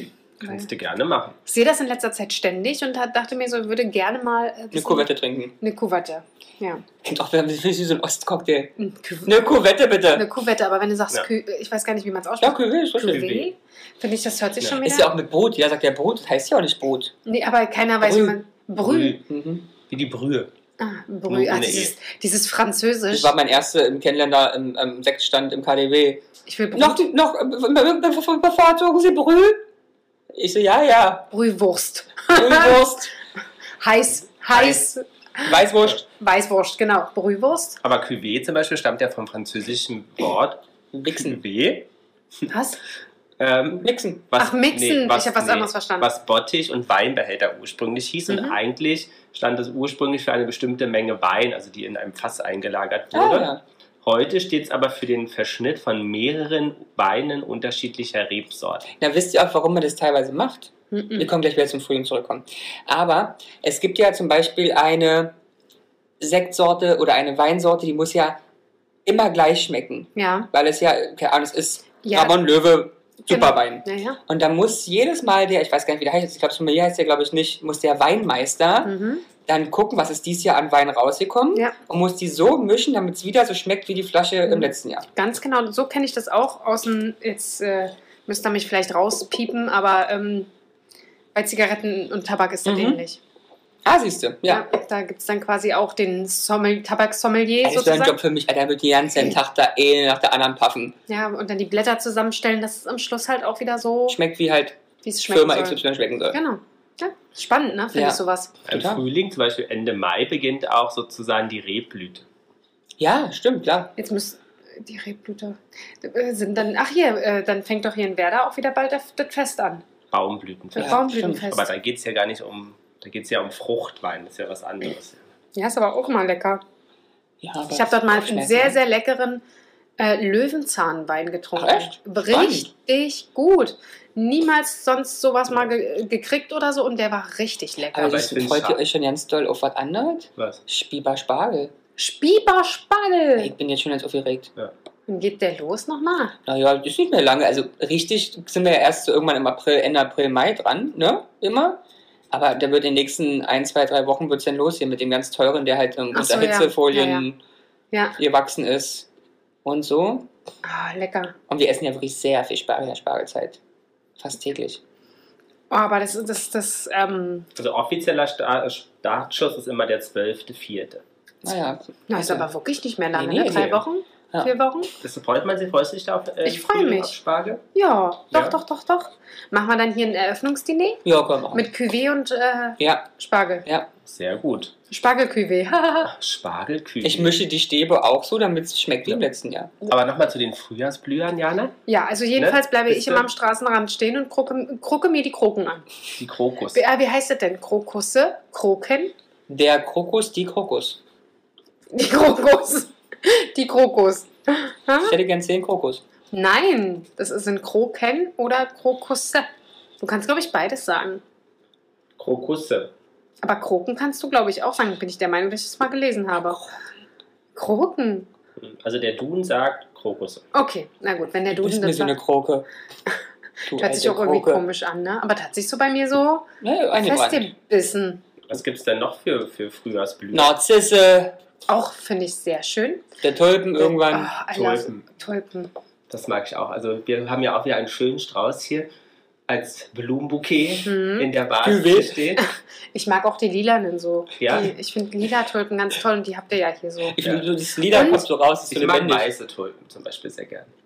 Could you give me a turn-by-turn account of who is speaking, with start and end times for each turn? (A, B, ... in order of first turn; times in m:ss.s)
0:00.4-0:01.4 A
0:01.4-0:06.8 B
0:04.7-0:05.5 C
0:07.0-0:08.7 C
0:08.8-0:09.3 B
0:09.2-0:10.3 C
0:10.1-0:15.1 B
0:12.4-0:13.5 C
0:14.8-0:17.1 C
0:17.2-0:19.2 B
0:18.0-0:18.4 C
0:18.8-0:19.2 A
0:19.3-0:19.7 C
0:19.9-0:20.5 A
0:20.8-0:23.3 B
0:21.3-0:21.9 A
0:23.1-0:29.6 C
0:26.4-0:27.0 B
0:30.3-0:31.3 C
0:31.3-0:33.1 B
0:32.3-0:33.1 C
0:33.8-0:37.8 B
0:35.4-0:36.0 C
0:37.8-0:40.6 A
0:40.9-0:41.4 C
0:41.1-0:41.9 A
0:42.5-0:42.8 B
0:43.4-0:53.5 A
0:43.8-0:44.2 C
0:44.4-0:46.1 B
0:48.3-0:48.6 B
0:53.1-0:53.6 C
0:54.0-0:58.9 A
0:59.0-1:05.3 C
1:00.9-1:01.3 B
1:06.2-1:08.4 C
1:09.0-1:18.9 C
1:10.2-1:10.5 B
1:12.0-1:12.4 B
1:13.3-1:14.2 B
1:18.8-1:19.2 B
1:19.4-1:25.0 C
1:24.4-1:30.5 B
1:31.3-1:33.2 B
1:32.6-1:33.0 C
1:33.8-1:34.6 C
1:34.4-1:38.2 B
1:37.6-1:40.9 C
1:41.1-1:44.2 B
1:44.1-1:46.4 C
1:45.0-1:48.5 B
1:47.9-1:49.0 C
1:48.6-1:52.2 A
1:53.0-1:53.9 C
1:54.0-1:59.8 B
2:00.1-2:05.2 A
2:00.7-2:01.7 B
2:00.8-2:01.4 C
2:05.5-2:06.6 B
2:07.4-2:08.8 C
2:07.7-2:09.4 B
2:10.0-2:18.2 B
2:11.6-2:12.7 C
2:17.9-2:21.7 C
2:18.0-2:18.8 A
2:22.0-2:23.5 B
2:23.4-2:24.5 C
2:25.1-2:26.3 B
2:26.4-2:37.4 C
2:36.1-2:37.3 B
2:37.9-2:38.2 B
2:38.2-2:39.1 C
2:39.6-2:40.3 C
2:40.6-2:41.3 B
2:41.5-2:43.6 C
2:44.2-2:44.8 C
2:45.7-2:47.5 B
2:47.6-2:51.0 A
2:51.4-2:52.5 C
2:52.1-2:54.9 B
2:53.1-2:54.5 C
2:55.0-2:57.6 A
2:56.4-2:57.1 B
2:57.7-3:03.6 B
2:58.3-2:58.6 A
3:01.0-3:01.7 C
3:02.8-3:03.1 C
3:04.0-3:04.7 A
3:04.9-3:06.1 B
3:06.1-3:07.4 A
3:07.0-3:09.7 C
3:09.8-3:11.8 A
3:11.9-3:15.9 B
3:12.4-3:13.2 A
3:16.1-3:16.8 A
3:16.7-3:19.1 B
3:19.5-3:21.0 C
3:21.9-3:25.1 B
3:25.0-3:26.0 C
3:26.3-3:29.5 B
3:30.0-3:31.2 B
3:32.2-3:32.9 A
3:33.4-3:36.6 B
3:36.4-3:36.7 C
3:37.5-3:38.3 B
3:38.6-3:40.4 A
3:40.5-3:42.2 B
3:41.5-3:42.7 C
3:43.7-3:44.6 C
3:43.7-3:48.2 B
3:46.6-3:47.5 C
3:48.5-3:50.5 A
3:50.3-3:51.4 C
3:51.7-3:53.0 B
3:53.2-3:54.3 C
3:53.8-3:55.7 B
3:54.5-3:55.0 A
3:56.1-3:58.9 A
3:59.5-4:02.4 A
4:00.8-4:01.3 B
4:01.6-4:02.2 C
4:02.4-4:07.2 B
4:04.4-4:04.7 A
4:07.0-4:09.3 C
4:07.2-4:07.5 A
4:07.9-4:08.2 B
4:08.7-4:10.7 A